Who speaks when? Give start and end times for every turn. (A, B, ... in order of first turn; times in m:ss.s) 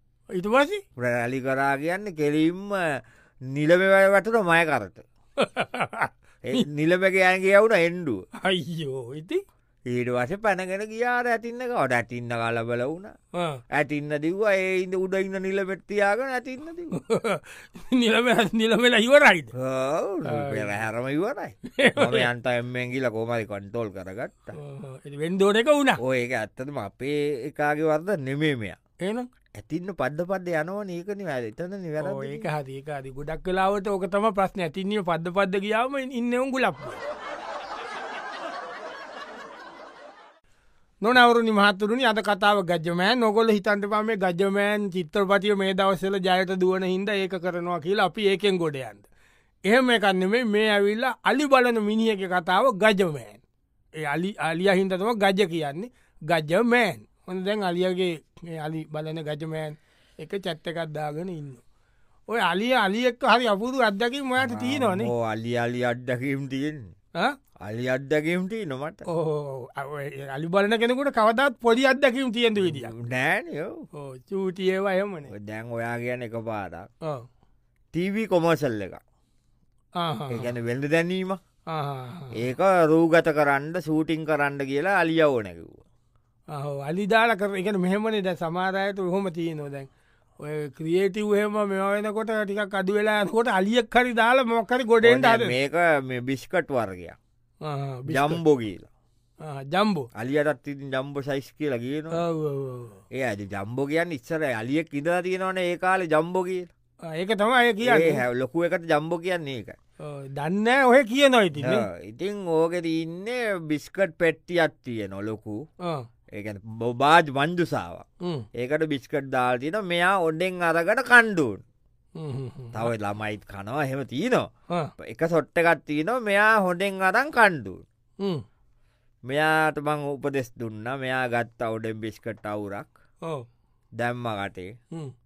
0:00.3-0:00.8 A
0:01.0-0:05.0 B
0:05.4-0:06.6 A
0:06.4-0:08.2 B
0:08.4-0:09.4 A
0:09.9-0:13.1 B
0:13.3-0:13.6 A
0:13.7-0:16.9 B
0:16.9-0:19.5 A
0:19.5-0:24.6 B
0:20.2-0:20.7 A
0:21.7-0:22.3 A
0:24.5-0:26.0 A
0:26.0-0:28.8 B
0:29.0-0:29.3 A
0:29.6-0:32.5 B
0:32.0-0:37.0 A
0:41.0-0:49.0 A
0:49.6-0:53.4 A
0:54.0-1:01.6 A
1:02.3-1:05.1 A
1:04.4-1:06.9 B
1:07.6-1:09.0 B
1:09.1-1:12.9 A
1:12.6-1:13.8 B
1:13.9-1:15.3 A
1:15.3-1:16.9 B
1:17.9-1:19.0 B
1:20.0-1:20.5 A
1:20.3-1:21.4 B
1:21.7-1:22.4 A
1:22.3-1:25.8 B
1:26.5-1:29.9 A
1:30.4-1:35.5 A
1:35.0-1:37.2 B
1:37.6-1:38.4 A
1:38.1-1:38.9 B
1:39.4-1:40.1 A
1:40.1-1:42.2 B
1:42.1-1:43.0 A
1:43.1-1:46.7 B
1:47.0-1:48.2 A
1:47.8-1:49.8 B
1:50.0-1:51.9 A
1:51.6-1:55.6 B
1:56.3-2:01.6 B
1:58.2-1:58.5 A
2:02.2-2:02.9 A
2:02.7-2:04.5 B
2:05.0-2:07.8 B
2:09.3-2:12.9 B
2:14.0-2:14.7 B